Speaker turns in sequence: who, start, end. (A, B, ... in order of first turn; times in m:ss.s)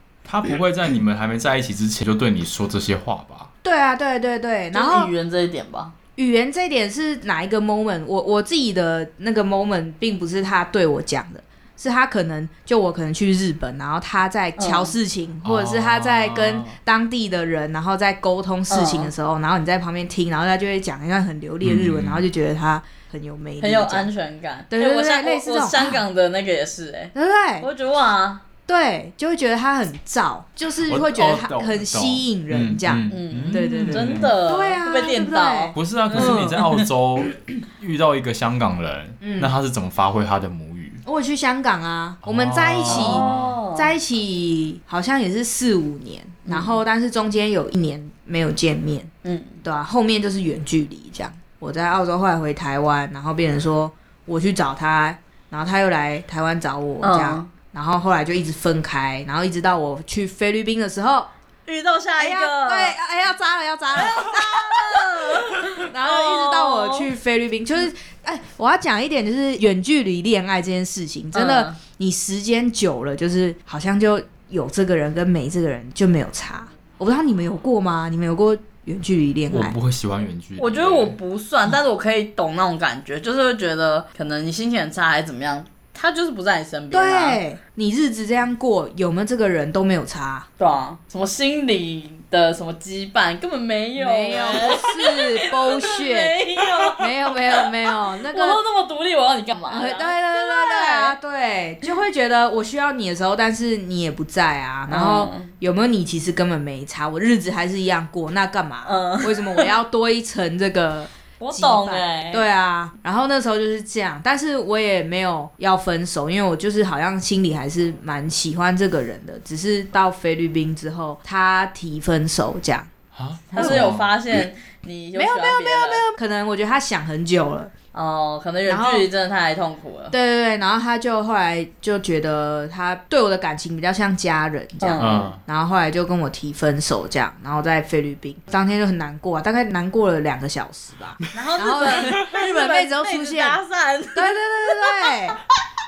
0:00.2-0:03.5 A
0:03.6-0:05.1 B
0:04.7-0:05.9 C
0:06.2-0:24.1 B
0:14.6-0:14.9 C
0:15.4-0:16.8 A
0:18.7-0:19.1 C
0:21.6-0:22.2 A
0:23.6-0:28.4 C
0:24.7-0:26.0 B
0:27.1-0:27.7 B
0:28.7-0:36.6 B
0:30.8-0:34.3 A
0:33.1-0:36.8 C
0:35.7-0:41.0 A
0:39.2-0:39.5 B
0:41.0-0:49.1 B
0:42.2-0:43.6 A
0:42.8-0:43.9 C
0:46.4-0:46.8 C
0:49.2-0:49.6 C
0:49.6-1:01.3 B
0:57.0-0:57.5 C
1:01.7-1:03.0 C
1:02.2-1:19.8 B
1:03.9-1:07.1 C
1:11.3-1:11.8 C
1:19.5-1:21.2 A
1:20.6-1:27.4 C
1:26.9-1:30.5 B
1:30.6-1:37.7 C
1:34.0-1:36.4 B
1:36.9-1:38.6 B
1:38.3-1:41.2 C
1:39.7-2:02.9 B
1:44.9-1:45.5 C
1:48.8-1:49.7 C
1:51.4-1:52.4 C
2:03.1-2:04.1 A
2:03.5-2:06.0 C
2:03.5-2:03.9 B
2:05.1-2:07.7 B
2:07.9-2:10.1 C
2:08.7-2:09.1 B
2:10.1-2:23.6 B
2:14.8-2:15.3 C
2:15.0-2:15.4 A
2:21.3-2:25.2 C
2:24.1-2:25.4 B